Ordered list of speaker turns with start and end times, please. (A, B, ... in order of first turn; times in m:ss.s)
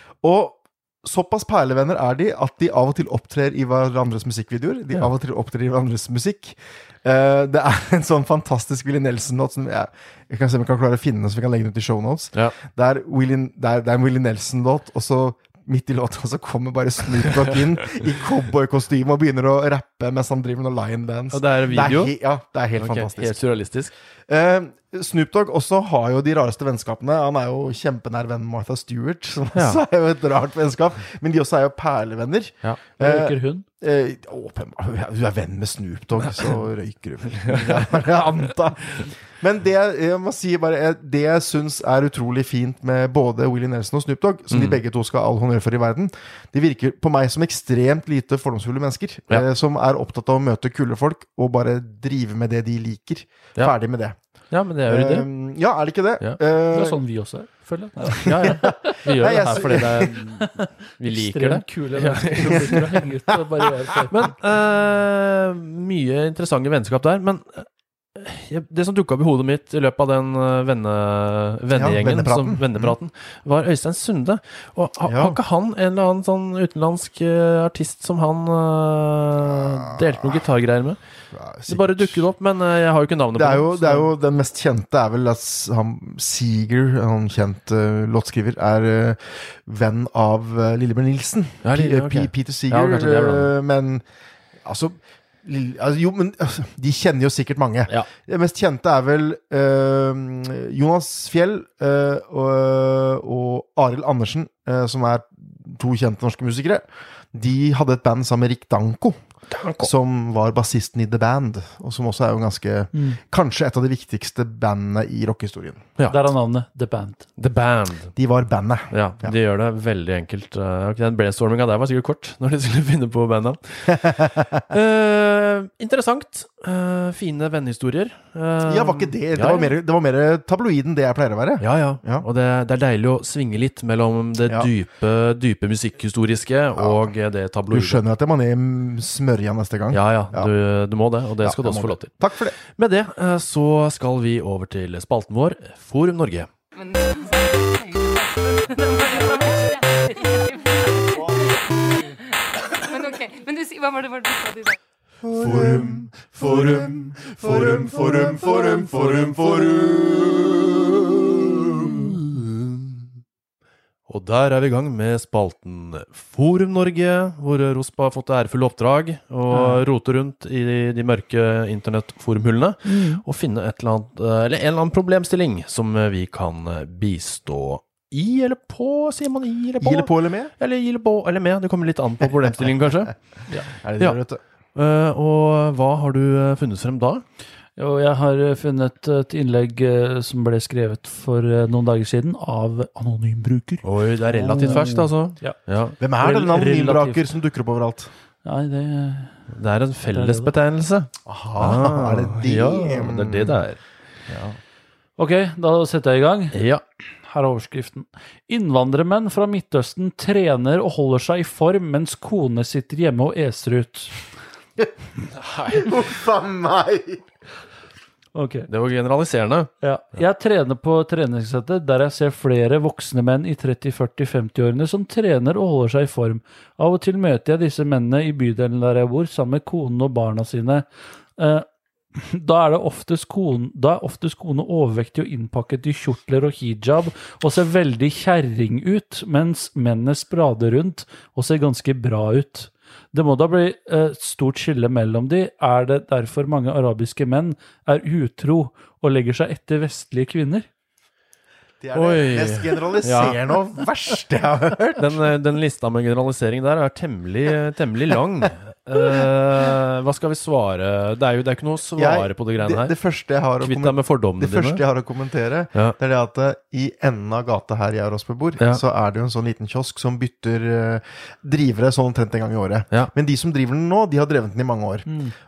0:00.2-0:23.4 A
0:21.3-0:22.1 B
0:22.8-0:23.9 B
0:24.3-0:54.2 A
0:29.6-0:29.8 B
0:33.0-0:33.6 C
0:37.5-0:37.9 B
0:44.5-0:44.8 B
0:54.5-0:55.3 B
0:54.9-0:57.0 A
0:56.7-1:04.3 C
0:58.1-1:00.2 A
0:58.2-1:02.9 B
1:02.4-1:03.0 A
1:04.1-1:21.0 B
1:11.7-1:13.0 A
1:15.1-1:15.4 A
1:19.5-1:20.4 A
1:21.3-1:22.3 A
1:21.7-1:24.1 B
1:23.4-1:34.0 A
1:31.6-1:33.5 B
1:34.6-1:49.2 A
1:49.5-1:49.9 B
1:49.8-1:55.9 A
1:56.1-1:57.2 C
1:57.4-1:58.1 B
1:58.2-1:59.4 A
1:58.9-2:09.7 B
2:03.9-2:04.6 A
2:08.6-2:12.2 A
2:11.6-2:18.0 B
2:16.8-2:17.1 A
2:17.7-2:20.5 A
2:19.9-2:22.1 B
2:21.4-2:22.6 A
2:22.8-2:26.5 B
2:26.7-2:34.8 D
2:35.2-2:42.6 A
2:35.4-2:39.9 B
2:44.1-3:03.2 B
2:49.5-2:49.8 C
2:52.9-2:53.2 C
2:59.8-3:00.5 A
3:03.8-3:04.4 A
3:04.8-3:07.2 B
3:07.8-3:15.6 C
3:13.8-3:16.0 B
3:16.0-3:18.1 A
3:16.2-3:17.3 C
3:18.4-3:19.4 C
3:19.5-3:23.8 B
3:20.1-3:20.5 C
3:21.3-3:23.6 A
3:25.2-3:26.6 C
3:26.5-3:26.8 B
3:27.2-3:34.1 C
3:35.4-3:35.9 B
3:35.7-3:37.3 A
3:38.4-3:38.7 C
3:38.7-3:39.7 B
3:39.8-3:50.9 C
3:51.4-4:10.7 C
4:11.8-4:15.3 A
4:11.9-4:13.4 B
4:15.0-4:22.9 B
4:22.0-4:35.2 A
4:23.6-4:24.8 B
4:35.1-4:35.3 C